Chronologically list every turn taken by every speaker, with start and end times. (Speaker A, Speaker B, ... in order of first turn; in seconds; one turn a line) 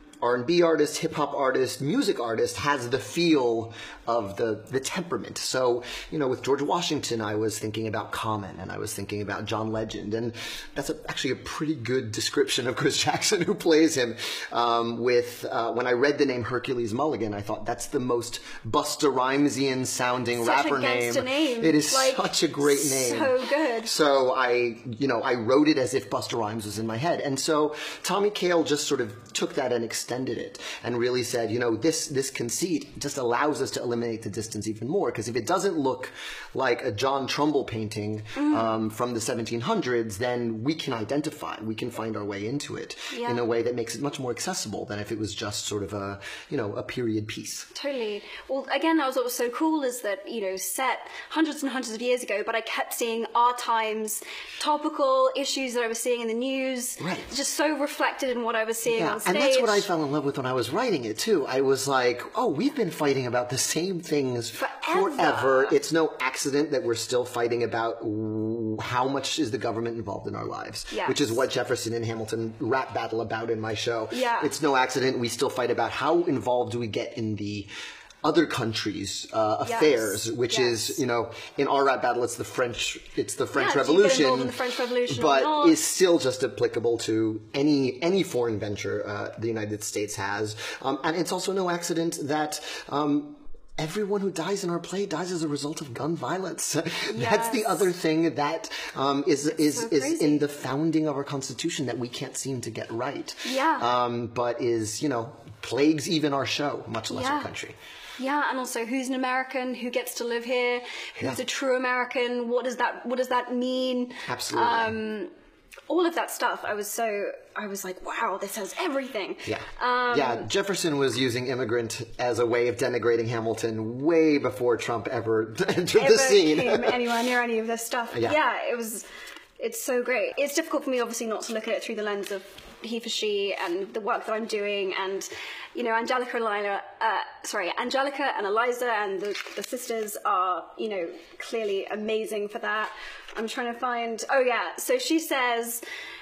Speaker A: 0.2-47.7
Speaker B: 20.4-23.9
Speaker B: 38.4-38.8
Speaker B: 43.1-43.5
Speaker B: 47.7-59.9
Speaker A: 57.0-57.3
Speaker A: 58.9-77.7
Speaker B: 64.6-65.8
Speaker B: 70.9-71.4
Speaker B: 74.1-74.5
Speaker A: 78.2-107.8
Speaker B: 79.6-81.0
Speaker B: 83.5-85.8
Speaker B: 97.1-97.9
Speaker B: 99.5-100.5
Speaker B: 103.5-103.9
Speaker B: 107.1-107.5
Speaker B: 108.2-115.3
Speaker A: 114.3-115.0
Speaker B: 115.9-120.5
Speaker A: 119.5-127.0
Speaker B: 125.9-129.1
Speaker A: 128.1-128.4
Speaker B: 129.6-145.8